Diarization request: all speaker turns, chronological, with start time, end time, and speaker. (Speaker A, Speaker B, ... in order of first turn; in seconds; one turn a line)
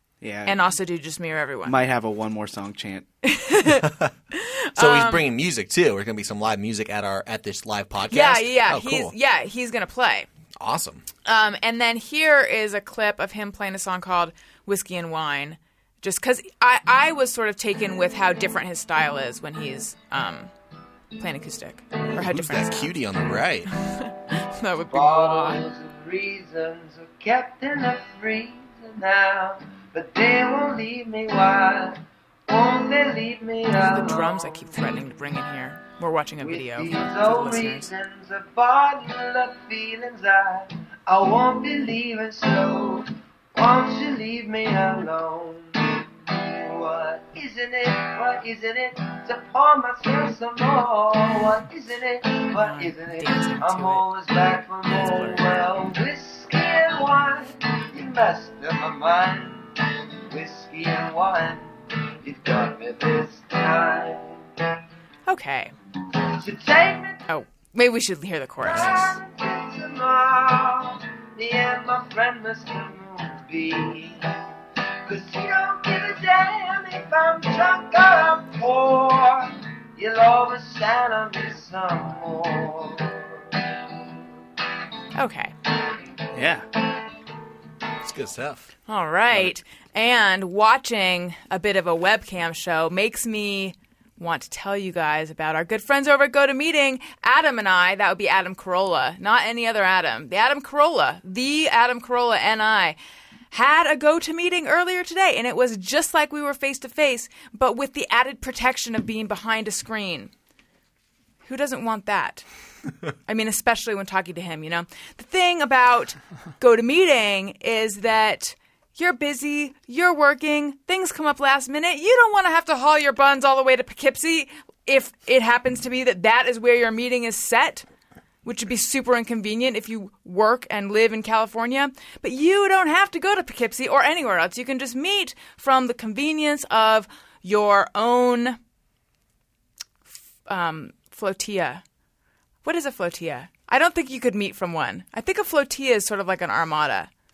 Speaker A: 0.2-0.6
Speaker B: 0.4-1.9
Speaker A: 1.6-3.1
Speaker B: 3.2-5.3
Speaker C: 3.8-4.1
Speaker C: 4.8-9.1
Speaker B: 8.1-10.3
Speaker C: 10.6-11.0
Speaker B: 11.2-20.5
Speaker B: 21.1-23.1
Speaker C: 22.1-23.7
Speaker B: 23.8-25.6
Speaker D: 24.9-34.9
Speaker B: 33.8-37.9
Speaker D: 36.4-64.4
Speaker B: 52.5-54.0
Speaker B: 54.9-55.5
Speaker B: 65.3-65.7
Speaker D: 66.2-67.2
Speaker B: 67.3-69.1
Speaker C: 68.6-69.0
Speaker D: 68.7-74.4
Speaker D: 75.0-84.1
Speaker B: 85.1-85.5
Speaker A: 86.3-86.7
Speaker C: 88.0-88.7
Speaker B: 88.9-103.0
Speaker B: 103.5-110.3
Speaker B: 111.4-112.4
Speaker B: 113.3-127.8
Speaker B: 128.4-138.6
Speaker B: 140.4-141.8
Speaker B: 142.6-147.1